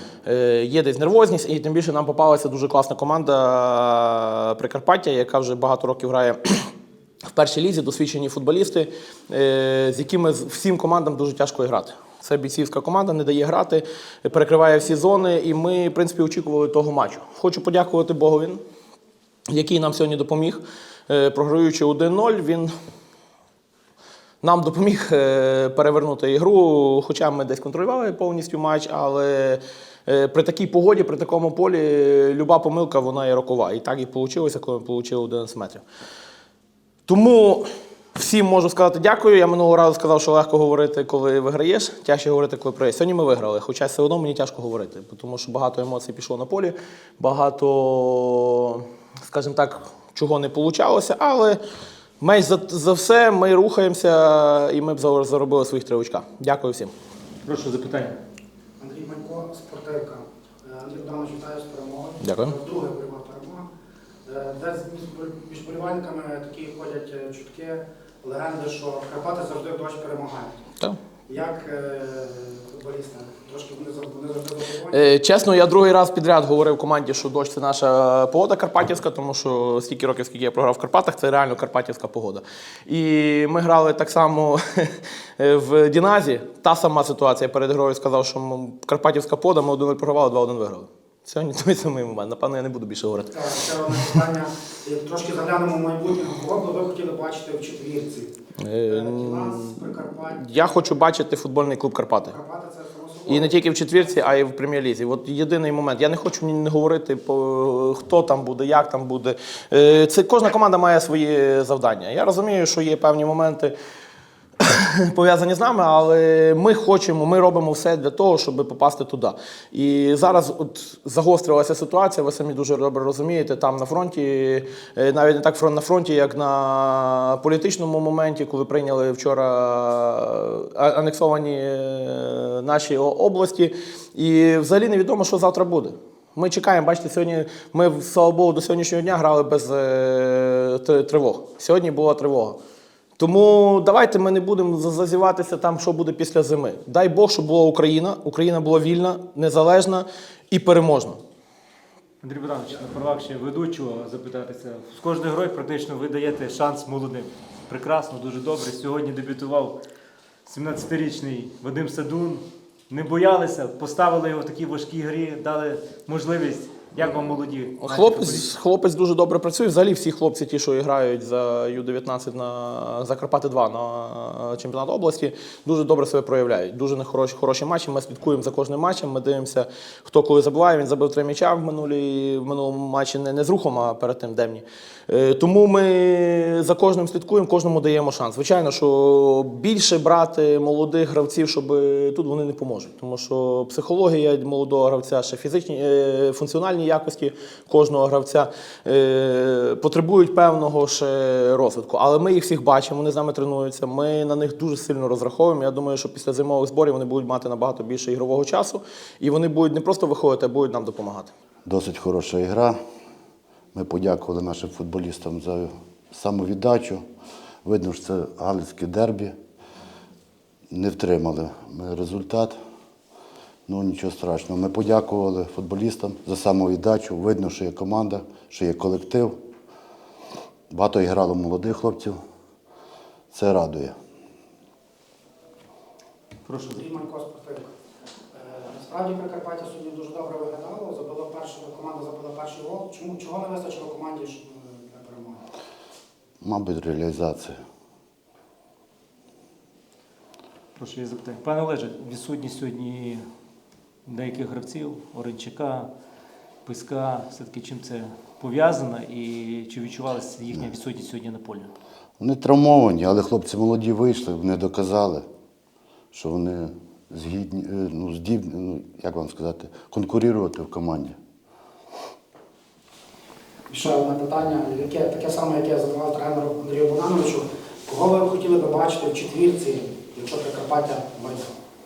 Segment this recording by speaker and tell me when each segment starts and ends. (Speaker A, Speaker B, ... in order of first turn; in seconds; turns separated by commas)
Speaker A: 0.2-6.7, Speaker A: 7.3-18.6, Speaker A: 19.5-22.7, Speaker A: 24.4-35.8, Speaker A: 37.0-51.6, Speaker A: 52.2-56.9, Speaker B: 57.4-58.2, Speaker C: 58.8-63.6, Speaker A: 62.2-62.5, Speaker C: 64.2-70.5, Speaker C: 71.3-75.0, Speaker A: 74.9-93.5, Speaker C: 93.3-98.3, Speaker A: 98.6-102.3, Speaker C: 98.9-101.0, Speaker C: 102.2-103.7, Speaker A: 103.3-113.7, Speaker A: 114.6-142.6, Speaker A: 143.2-151.2, Speaker B: 152.2-159.8, Speaker B: 160.4-168.5, Speaker A: 167.8-211.3, Speaker D: 211.6-212.8, Speaker D: 213.7-217.0, Speaker D: 217.6-219.3, Speaker D: 220.7-222.6, Speaker D: 223.7-229.3, Speaker D: 230.7-232.2, Speaker D: 233.3-233.9, Speaker B: 236.4-236.9, Speaker C: 236.8-237.7, Speaker C: 238.3-245.4, Speaker D: 246.4-247.6, Speaker B: 250.7-253.2, Speaker B: 254.1-255.9, Speaker B: 256.6-261.7, Speaker D: 262.2-265.2, Speaker D: 266.1-271.1, Speaker C: 273.7-281.5